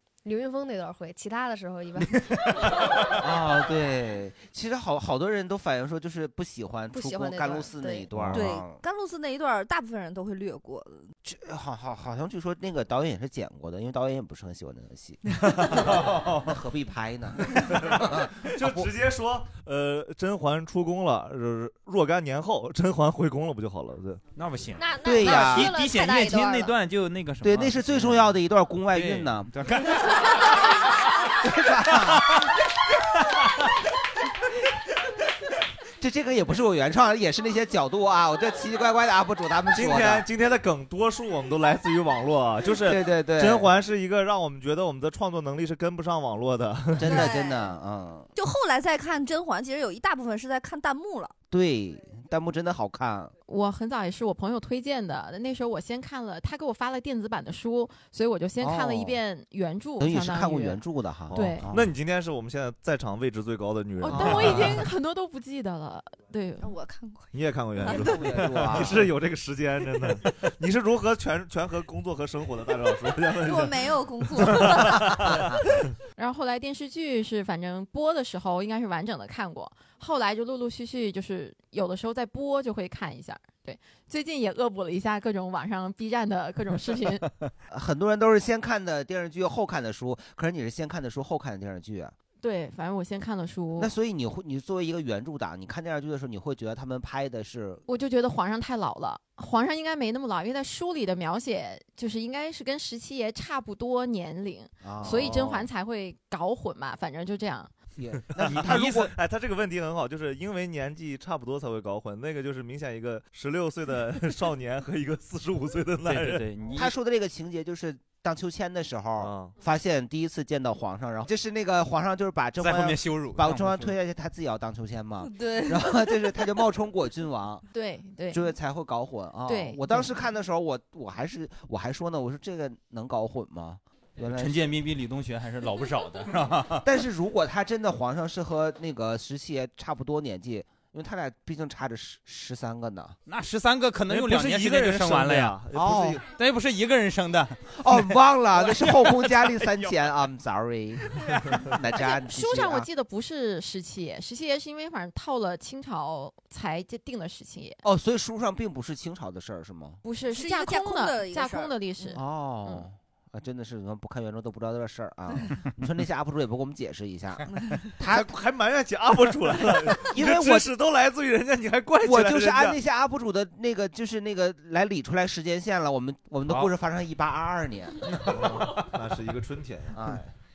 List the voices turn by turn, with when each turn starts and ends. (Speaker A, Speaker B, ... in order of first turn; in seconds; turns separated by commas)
Speaker A: 0.2-2.7, Speaker B: 3.1-8.8, Speaker A: 6.9-8.1, Speaker C: 8.1-8.4, Speaker D: 8.3-11.1, Speaker B: 11.2-18.9, Speaker C: 17.7-24.2, Speaker E: 24.3-28.2, Speaker A: 24.8-26.7, Speaker B: 25.0-25.7, Speaker D: 25.2-26.5, Speaker B: 27.4-29.5, Speaker E: 28.9-30.7, Speaker B: 31.4-32.5, Speaker B: 36.0-40.2, Speaker C: 39.7-47.2, Speaker B: 42.8-43.7, Speaker B: 47.0-48.3, Speaker D: 47.0-47.7, Speaker D: 48.4-51.3, Speaker B: 51.5-53.3, Speaker F: 53.5-60.8, Speaker B: 58.6-59.2, Speaker B: 60.0-61.9, Speaker F: 61.3-61.7, Speaker C: 61.3-64.8, Speaker F: 64.0-66.7, Speaker D: 66.6-68.3, Speaker C: 67.3-75.6, Speaker B: 67.9-69.1, Speaker E: 68.6-69.0, Speaker D: 73.3-75.5, Speaker F: 76.2-87.3, Speaker B: 87.7-92.1, Speaker F: 92.4-93.9, Speaker B: 93.8-97.8, Speaker F: 97.9-107.7, Speaker B: 104.8-105.7, Speaker B: 108.0-109.1, Speaker C: 108.3-116.5, Speaker E: 116.0-116.9, Speaker B: 116.7-127.6, Speaker C: 119.2-119.5, Speaker E: 122.6-123.9, Speaker D: 125.2-126.4, Speaker F: 127.7-128.4, Speaker B: 128.3-134.7, Speaker F: 129.5-130.0, Speaker E: 134.3-136.8, Speaker B: 136.8-143.2, Speaker E: 143.3-145.6, Speaker C: 144.1-146.2, Speaker B: 145.7-146.2, Speaker E: 146.3-147.7, Speaker B: 147.7-152.9, Speaker E: 148.5-149.9, Speaker F: 151.9-157.8, Speaker B: 157.8-160.0, Speaker F: 160.0-162.9, Speaker D: 160.3-162.2, Speaker B: 162.1-168.3, Speaker D: 167.5-167.9, Speaker C: 168.1-172.8, Speaker B: 170.0-170.7, Speaker B: 172.0-178.3, Speaker C: 178.2-180.0, Speaker B: 179.9-180.3